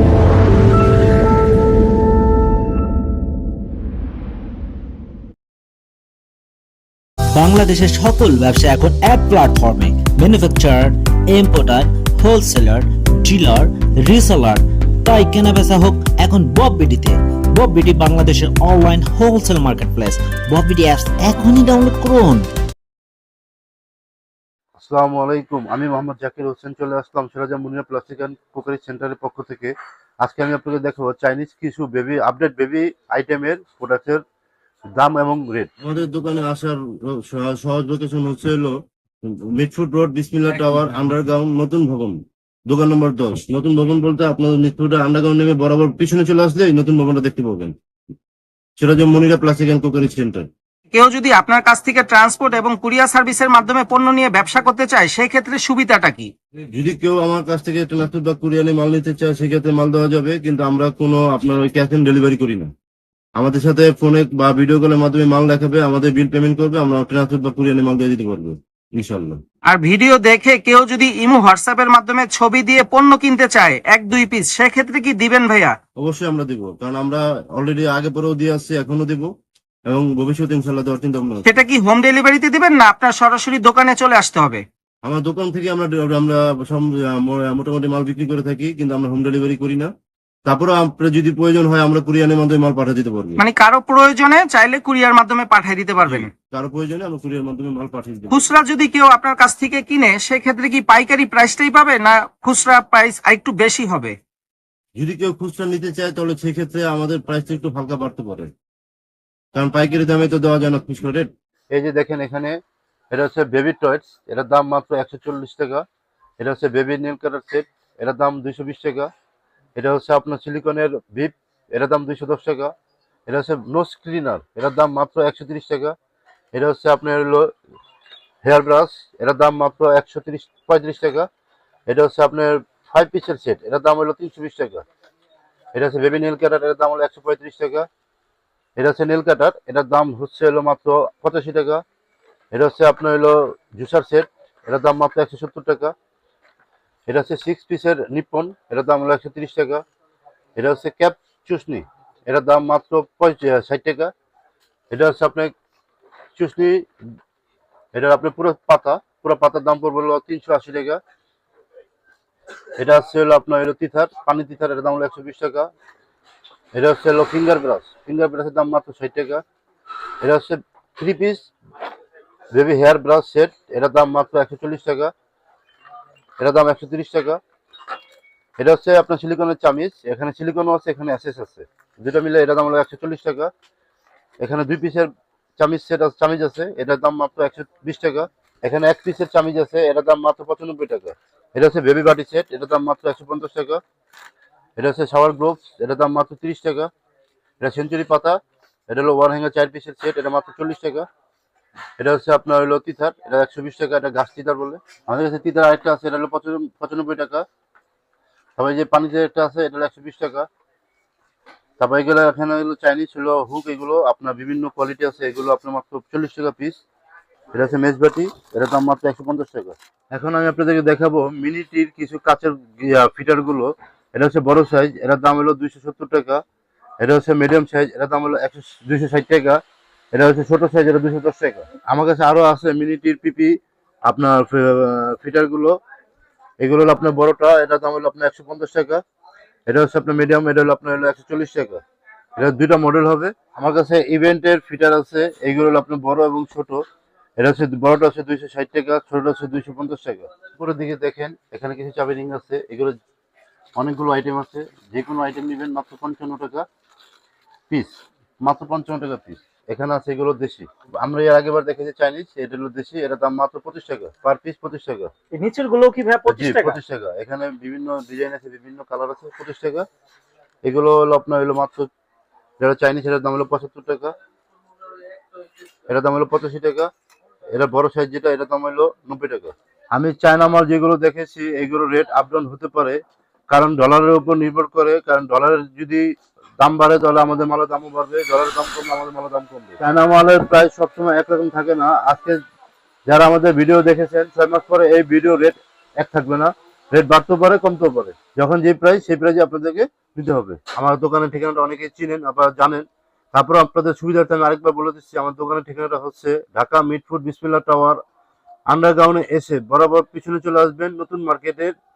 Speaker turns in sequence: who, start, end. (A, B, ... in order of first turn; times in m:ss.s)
0:07.3-0:22.4 A
0:24.8-0:34.2 B
0:34.9-0:35.7 B
0:35.8-0:47.7 C
0:48.8-0:50.5 C
0:50.9-0:56.3 D
0:56.7-1:02.7 C
1:03.4-1:09.4 C
1:09.7-1:15.7 D
1:16.0-1:19.3 C
1:19.9-1:21.4 C
1:21.4-1:24.6 D
1:25.0-1:29.9 C
1:30.4-1:33.4 C
1:33.4-1:36.3 D
1:36.0-1:38.4 C
1:38.3-1:44.2 D
1:45.0-1:48.5 C
1:49.5-1:51.3 C
1:51.7-1:52.6 B
1:53.1-1:55.8 B
1:56.4-1:59.1 B
1:59.8-2:02.7 B
2:03.3-2:06.0 B
2:06.5-2:07.5 B
2:08.4-2:11.3 B
2:11.9-2:14.8 B
2:15.7-2:17.9 B
2:18.8-2:21.8 B
2:22.5-2:25.9 B
2:27.1-2:29.8 B
2:30.6-2:34.1 B
2:34.9-2:35.5 B
2:36.4-2:36.9 B
2:37.9-2:41.0 B
2:42.8-2:45.7 B
2:46.7-2:49.4 B
2:50.2-2:51.5 B
2:52.5-2:55.1 B
2:56.4-2:57.4 B
2:58.6-3:03.5 B
3:04.4-3:13.8 B
3:14.8-3:16.9 B
3:17.6-3:21.1 B
3:22.0-3:27.4 B
3:28.6-3:30.5 B
3:31.8-3:36.8 B
3:37.5-3:46.4 B
3:47.0-3:49.6 B
3:50.1-3:55.8 B
3:56.6-3:59.0 B
3:59.7-4:01.8 B
4:02.4-4:06.8 B
4:07.4-4:13.0 B
4:13.8-4:16.6 B
4:17.7-4:25.1 B
4:25.3-4:26.8 D
4:26.3-4:29.8 B
4:30.6-4:31.9 B
4:32.6-4:34.1 B
4:35.9-4:36.9 B
4:37.5-4:46.0 B
4:46.6-4:52.4 B
4:53.1-5:08.0 B
5:08.7-5:11.7 B